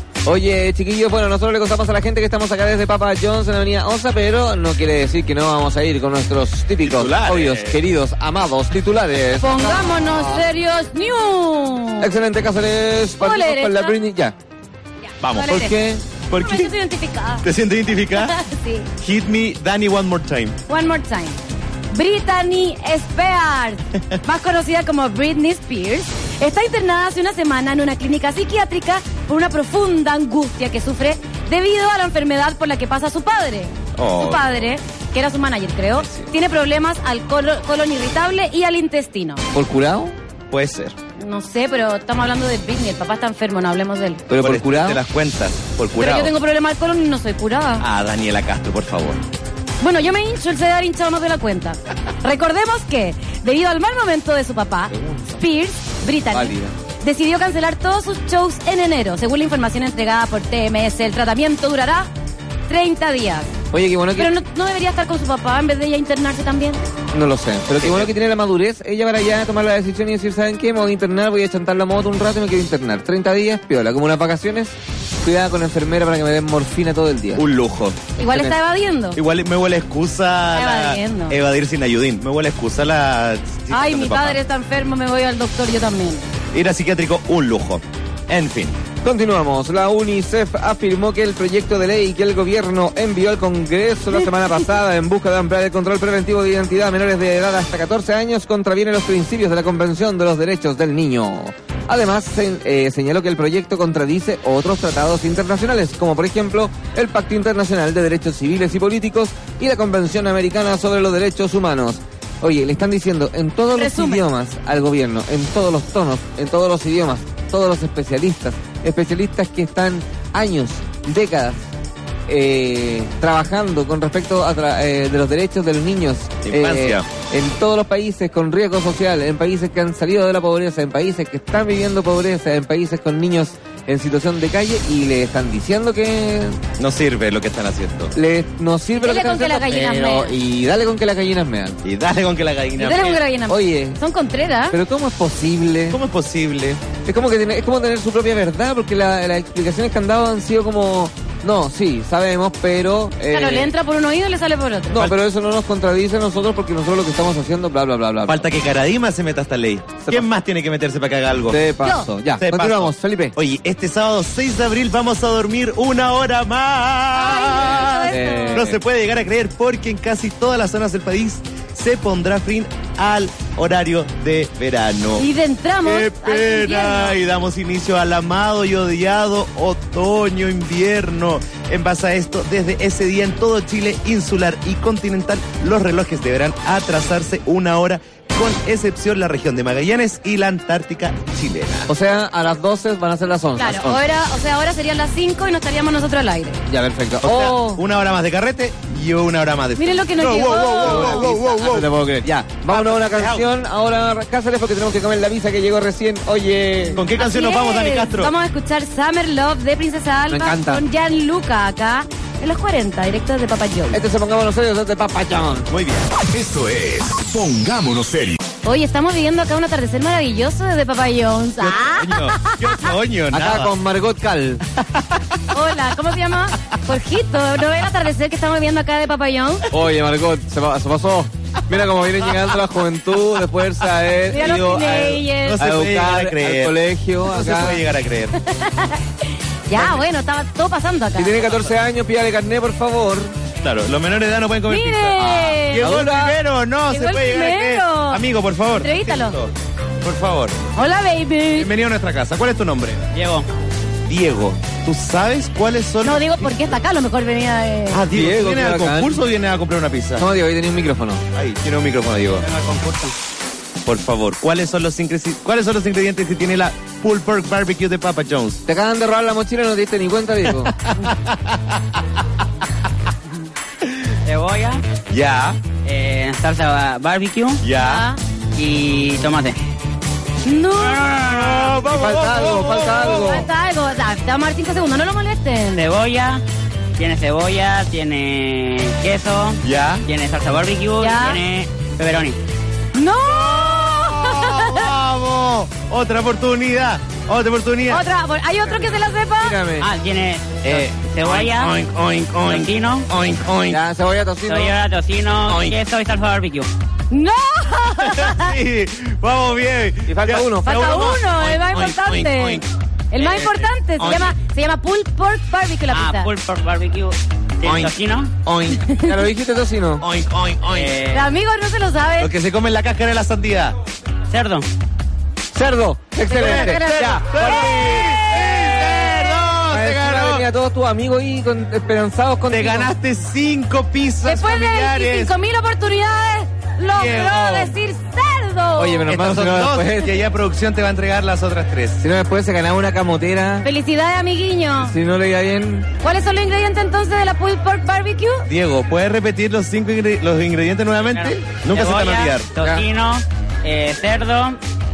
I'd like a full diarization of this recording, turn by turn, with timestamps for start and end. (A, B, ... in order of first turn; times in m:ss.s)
0:00.2-0:10.4 A
0:06.8-0:07.8 B
0:09.4-0:12.1 C
0:12.0-0:14.3 A
0:13.2-0:13.9 C
0:15.2-0:15.7 B
0:15.3-0:15.8 C
0:15.5-0:16.0 A
0:16.3-0:16.7 B
0:16.4-0:17.4 C
0:17.4-0:18.4 B
0:18.1-0:18.9 C
0:19.0-0:20.6 B
0:20.7-0:21.4 C
0:21.9-0:39.4 C
0:34.0-0:34.4 B
0:36.0-0:36.3 B
0:39.5-0:40.2 A
0:40.5-0:40.9 B
0:41.2-0:44.2 C
0:44.3-0:45.0 A
0:44.4-0:46.3 B
0:46.0-0:47.8 C
0:47.8-0:49.2 B
0:49.8-1:02.1 C
0:54.9-0:55.4 A
0:56.3-0:56.8 A
1:02.7-1:03.5 C
1:03.7-1:04.3 A
1:04.2-1:06.8 C
1:07.1-1:17.4 A
1:07.8-1:08.1 B
1:17.3-1:18.1 B
1:18.2-1:18.5 A
1:18.2-1:19.2 C
1:19.2-1:24.4 B
1:20.5-1:21.4 C
1:23.7-1:26.2 C
1:26.5-1:28.8 B
1:29.0-2:01.7 A
1:53.7-1:54.2 C
2:02.3-2:16.6 A
2:06.4-2:07.0 B
2:16.8-2:18.1 B
2:18.1-2:21.8 A
2:19.0-2:20.4 C
2:21.8-2:23.2 B
2:22.8-2:24.8 C
2:23.5-2:24.0 A
2:24.7-2:26.0 A
2:25.9-2:26.8 B
2:27.0-2:33.7 A
2:33.3-2:35.1 C
2:34.9-2:38.5 A
2:38.2-2:41.6 B
2:41.5-2:43.3 A
2:41.8-2:42.1 C
2:42.4-2:55.3 B
2:47.2-2:48.6 C
2:48.1-2:48.8 A
2:55.1-2:57.2 C
2:55.8-3:11.9 B
3:11.9-3:14.0 A
3:13.6-3:16.6 C
3:16.7-3:17.8 A
3:17.2-3:21.9 B
3:19.8-3:21.8 C
3:20.8-3:27.0 A
3:22.7-3:23.5 B
3:26.9-3:28.3 B
3:27.1-3:34.0 C
3:30.3-3:30.8 A
3:33.9-3:35.7 A
3:35.7-3:36.1 B
3:36.3-3:38.4 D
3:38.6-3:42.9 C
3:41.6-3:43.7 B
3:43.3-3:44.6 A
3:45.5-3:49.7 C
3:49.7-3:57.8 A
3:54.3-3:55.6 C
3:55.4-3:58.3 B
3:58.4-3:59.0 C
3:59.7-4:01.6 C
4:01.2-4:03.3 A
4:03.6-4:10.6 B
4:04.7-4:05.9 C
4:05.2-4:06.4 A
4:06.9-4:08.2 C
4:08.7-4:09.4 C
4:10.7-4:11.7 C
4:11.5-4:13.1 B
4:13.1-4:13.4 E
4:14.1-4:16.8 B
4:16.0-4:18.0 C
4:17.9-4:20.2 B
4:18.1-4:19.2 A
4:20.2-4:21.2 A
4:21.3-4:22.4 B
4:22.4-4:23.1 E
4:23.8-4:28.6 B
4:28.7-4:30.7 A
4:30.8-4:31.8 B
4:34.2-4:34.8 E
4:35.1-4:35.6 B
4:35.8-4:37.6 E
4:37.6-4:38.1 B
4:37.8-4:38.2 C
4:38.6-4:39.6 E
4:40.4-4:41.2 C
4:40.8-4:41.8 E
4:41.1-4:43.4 B
4:41.9-4:43.5 A
4:43.2-4:45.8 C
4:45.7-4:46.4 E
4:47.0-4:52.4 E
4:49.6-4:50.0 B
4:51.0-4:51.4 C
4:53.0-4:54.9 C
4:53.2-4:58.0 B
4:57.9-4:59.6 C
4:59.4-4:59.9 A
4:59.8-5:01.7 E
5:00.6-5:03.8 B
5:02.4-5:03.1 E
5:03.7-5:04.7 A
5:04.5-5:06.7 E
5:05.4-5:05.8 B
5:07.1-5:08.5 C
5:08.0-5:12.6 B
5:10.1-5:10.8 A
5:10.6-5:16.3 C
5:13.2-5:14.2 E
5:13.2-5:14.3 B
5:15.9-5:18.3 E
5:17.6-5:18.8 B
5:18.8-5:19.2 C
5:19.0-5:20.0 A
5:20.0-5:21.0 B
5:20.7-5:21.3 E
5:21.1-5:22.3 C
5:22.2-5:23.7 B
5:24.3-5:24.6 E
5:25.5-5:27.7 A
5:26.3-5:29.5 C
5:26.3-5:30.4 B
5:29.7-5:32.9 A
5:32.5-5:35.3 B
5:34.2-5:39.1 C
5:36.9-5:37.7 B
5:38.8-5:40.1 A
5:39.1-5:42.0 B
5:42.0-5:43.7 A
5:43.6-5:44.9 C
5:44.8-5:45.9 A
5:46.0-5:48.4 C
5:48.5-5:52.5 B
5:51.1-5:54.6 E
5:52.6-5:52.8 A